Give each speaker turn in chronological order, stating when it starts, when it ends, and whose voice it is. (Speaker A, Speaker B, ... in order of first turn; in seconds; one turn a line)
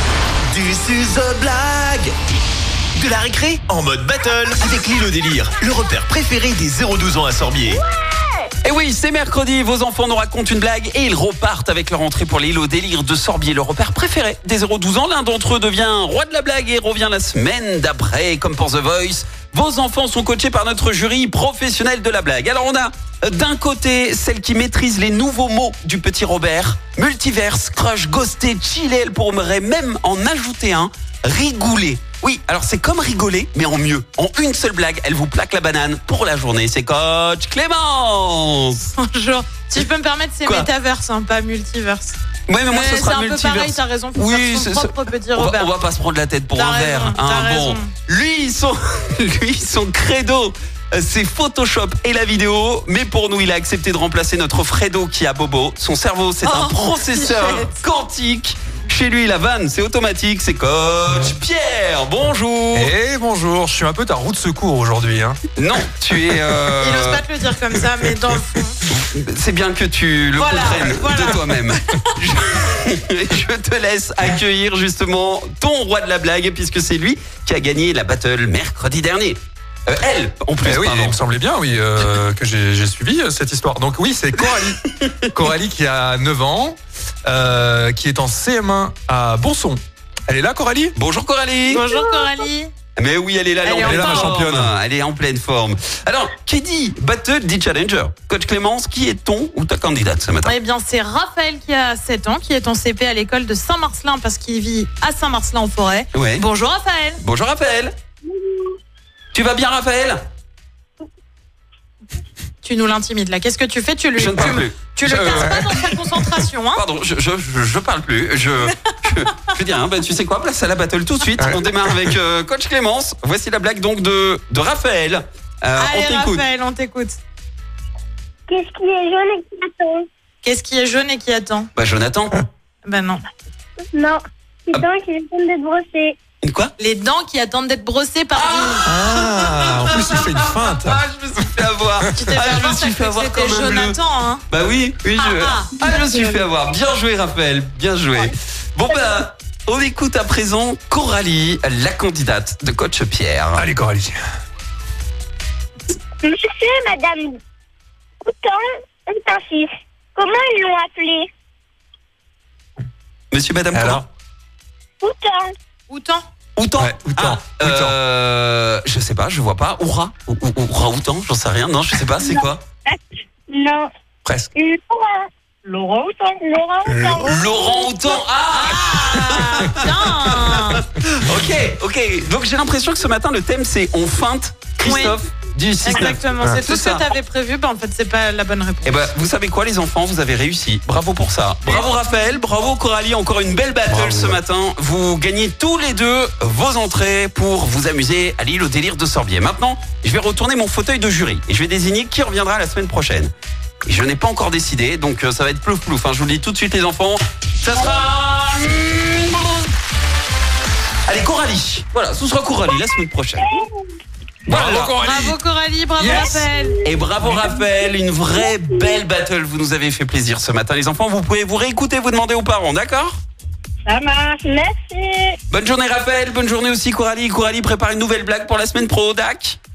Speaker A: 0.5-2.1
Speaker A: 3.0-7.8
Speaker B: 8.6-38.9
Speaker C: 39.0-42.2
Speaker B: 42.5-62.9
Speaker C: 42.7-45.7
Speaker C: 46.5-47.9
Speaker C: 56.4-57.8
Speaker D: 61.1-61.4
Speaker D: 62.7-65.4
Speaker B: 65.6-67.2
Speaker C: 66.8-68.8
Speaker B: 68.9-81.2
Speaker C: 70.3-72.7
Speaker D: 80.6-84.8
Speaker D: 85.3-90.9
Speaker B: 90.9-91.9
Speaker C: 91.7-92.7
Speaker E: 92.0-92.3
Speaker B: 93.0-100.5
Speaker C: 93.7-94.3
Speaker D: 93.7-94.7
Speaker C: 100.4-107.2
Speaker B: 106.1-106.4
Speaker B: 107.2-108.0
Speaker B: 109.3-110.2
Speaker C: 112.6-116.8
Speaker B: 114.1-115.6
Speaker D: 115.1-115.7
Speaker B: 116.7-126.4
Speaker C: 125.8-127.2
Speaker E: 128.5-130.0
Speaker C: 130.4-131.7
Speaker B: 131.8-132.4
Speaker C: 132.8-133.2
Speaker E: 133.9-136.2
Speaker B: 136.4-136.7
Speaker C: 136.8-138.9
Speaker B: 138.3-153.7
Speaker D: 138.8-141.0
Speaker C: 142.1-144.4
Speaker C: 145.2-145.7
Speaker D: 153.6-154.2
Speaker E: 156.2-157.4
Speaker E: 158.2-161.3
Speaker B: 163.3-164.0
Speaker D: 163.7-164.0
Speaker E: 165.0-165.5
Speaker C: 165.9-166.2
Speaker B: 166.6-172.6
Speaker D: 166.8-167.9
Speaker E: 173.5-173.8
Speaker D: 174.2-174.5
Speaker E: 174.6-175.3
Speaker E: 176.3-178.1
Speaker D: 176.8-177.5
Speaker B: 177.2-187.1
Speaker C: 178.5-180.8
Speaker C: 184.8-185.2
Speaker C: 185.8-189.1
Speaker B: 188.8-203.3
Speaker D: 193.9-194.4
Speaker B: 203.8-209.6
Speaker B: 211.1-213.6
Speaker B: 214.5-215.0
Speaker D: 214.5-215.4
Speaker C: 215.0-216.8
Speaker D: 216.0-216.6
Speaker B: 216.8-223.2
Speaker E: 224.4-225.3
Speaker B: 225.5-229.6